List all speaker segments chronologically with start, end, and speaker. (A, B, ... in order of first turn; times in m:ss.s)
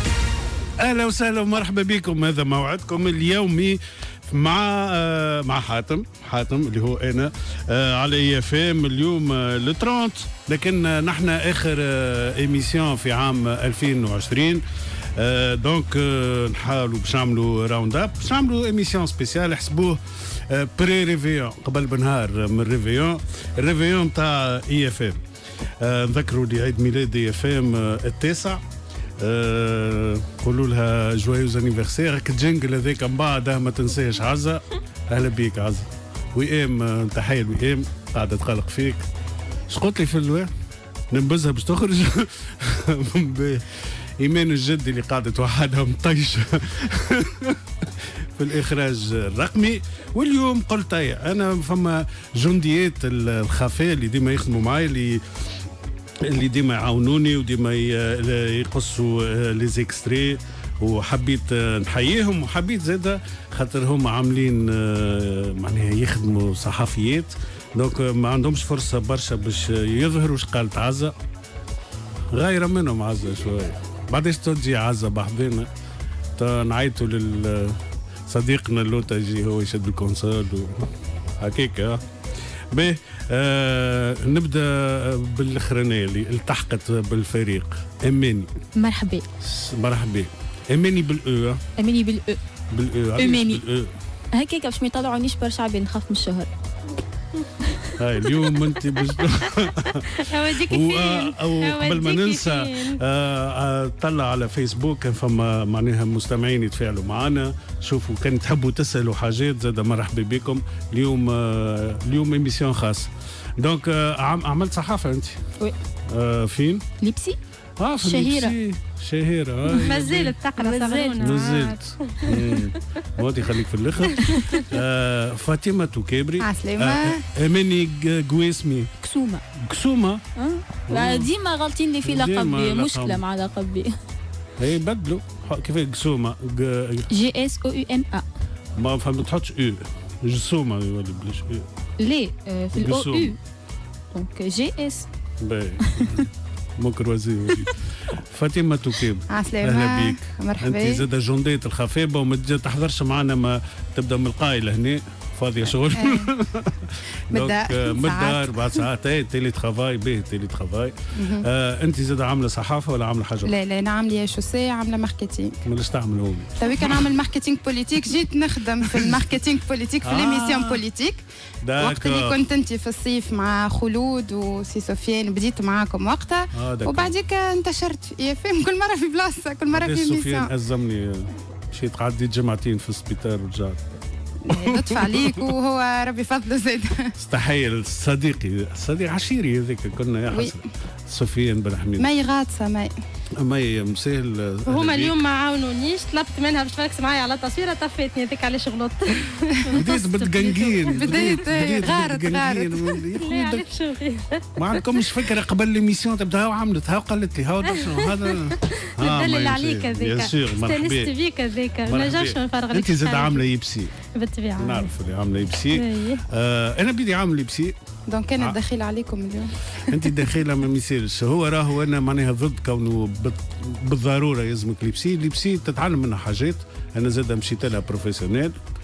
0:00.8-0:14.6 A
0:15.1-0:25.2 A
0:25.8-0:28.6 A
0:29.2-0:39.0 A
0:39.7-0:40.5 A
0:41.1-0:55.2 A
0:56.2-1:11.1 A
1:12.3-1:15.7 A
1:16.4-1:20.9 A
1:21.4-1:22.0 A
1:22.7-1:28.5 A
1:28.8-1:29.3 B
1:29.4-1:31.6 A
1:31.8-1:32.4 B
1:32.7-1:33.9 A
1:33.2-1:33.6 B
1:34.3-1:36.5 B
1:38.0-1:55.4 A
1:40.1-1:43.0 C
1:56.1-1:56.8 A
1:57.0-1:57.4 B
1:57.8-2:00.3 A
1:58.0-1:58.5 B
1:59.8-2:02.4 C
2:00.6-2:01.4 B
2:01.2-2:08.9 A
2:04.2-2:04.6 C
2:06.4-2:07.2 D
2:09.0-2:09.4 B
2:09.6-2:10.2 A
2:10.4-2:13.9 B
2:10.9-2:11.3 A
2:12.0-2:13.2 A
2:14.6-2:17.1 A
2:17.1-2:18.2 B
2:18.8-2:21.6 A
2:22.0-2:23.4 B
2:22.7-2:23.3 A
2:24.1-2:25.0 B
2:25.4-2:43.5 A
2:25.8-2:26.1 B
2:29.3-2:31.0 D
2:36.0-2:36.3 D
2:37.3-2:38.8 D
2:41.2-2:41.4 D
2:43.4-2:45.6 D
2:45.6-2:47.1 A
2:46.6-2:51.2 D
2:48.9-2:49.2 A
2:50.0-2:50.8 A
2:51.6-2:52.4 A
2:51.8-3:00.5 D
2:56.5-2:57.1 A
2:59.7-3:03.8 A
3:04.5-3:07.1 D
3:04.5-3:05.5 A
3:07.2-3:12.1 A
3:10.3-3:10.6 D
3:12.0-3:12.9 D
3:13.4-3:15.2 A
3:14.7-3:21.2 C
3:19.7-3:23.6 A
3:20.9-3:22.9 D
3:23.2-3:25.0 C
3:24.6-3:31.1 A
3:27.7-3:33.4 C
3:31.8-3:33.9 A
3:34.2-3:34.9 C
3:34.6-3:37.7 A
3:35.7-3:36.2 C
3:38.1-3:39.5 D
3:39.8-3:48.5 A